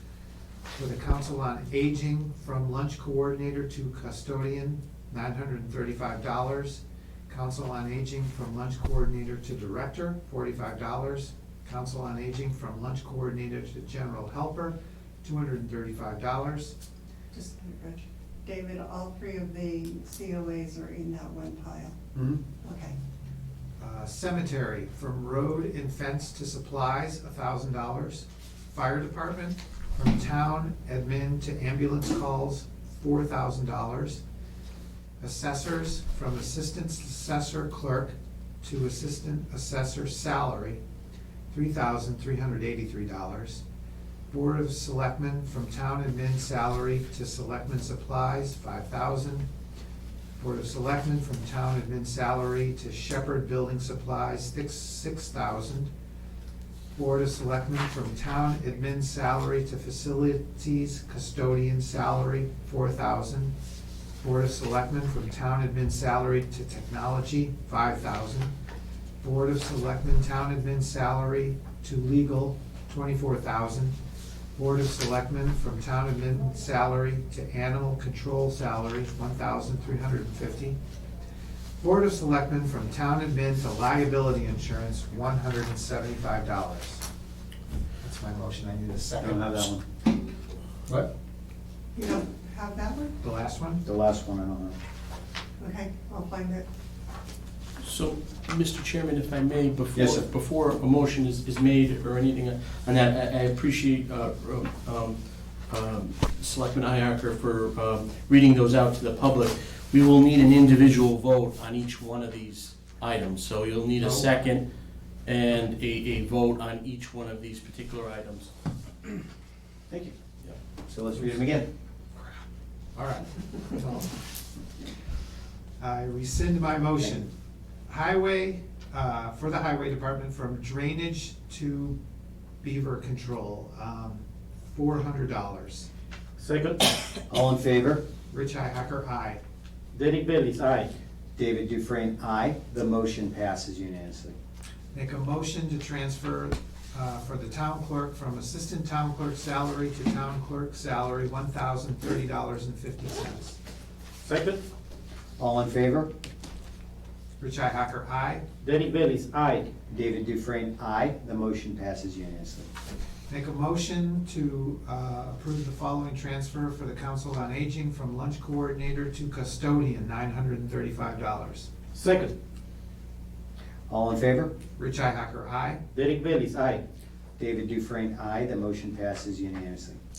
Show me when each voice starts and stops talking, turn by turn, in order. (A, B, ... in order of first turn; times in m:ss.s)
0:00.7-0:16.7 A
0:17.3-0:22.0 B
0:22.6-0:23.0 B
0:23.8-0:34.2 A
0:35.2-0:40.8 A
0:41.5-0:43.6 A
0:44.3-0:49.5 A
0:50.4-0:55.9 A
0:56.9-1:03.5 A
1:04.2-1:08.5 A
1:09.2-1:14.0 A
1:14.6-1:20.8 A
1:21.8-1:27.0 A
1:28.0-1:29.7 A
1:29.2-1:29.8 C
1:31.9-1:33.1 B
1:33.2-1:33.8 A
1:33.8-1:34.8 C
1:35.6-1:36.6 B
1:37.8-1:54.6 D
1:39.9-1:40.2 C
1:54.0-1:54.3 A
1:55.2-1:58.5 D
2:00.9-2:01.7 C
2:02.9-2:04.2 A
2:05.8-2:07.3 A
2:07.9-2:12.0 A
2:12.6-2:15.9 A
2:16.4-2:17.0 E
2:17.3-2:18.0 C
2:18.3-2:19.4 A
2:19.9-2:20.9 E
2:21.4-2:24.4 C
2:24.9-2:33.6 A
2:34.2-2:34.6 E
2:35.4-2:36.1 C
2:37.4-2:38.4 A
2:38.6-2:39.7 E
2:39.9-2:42.7 C
2:43.3-2:51.7 A
2:51.9-2:52.3 E
2:53.9-2:54.5 C
2:54.8-2:55.8 A
2:55.9-2:56.8 E
2:57.4-3:00.0 C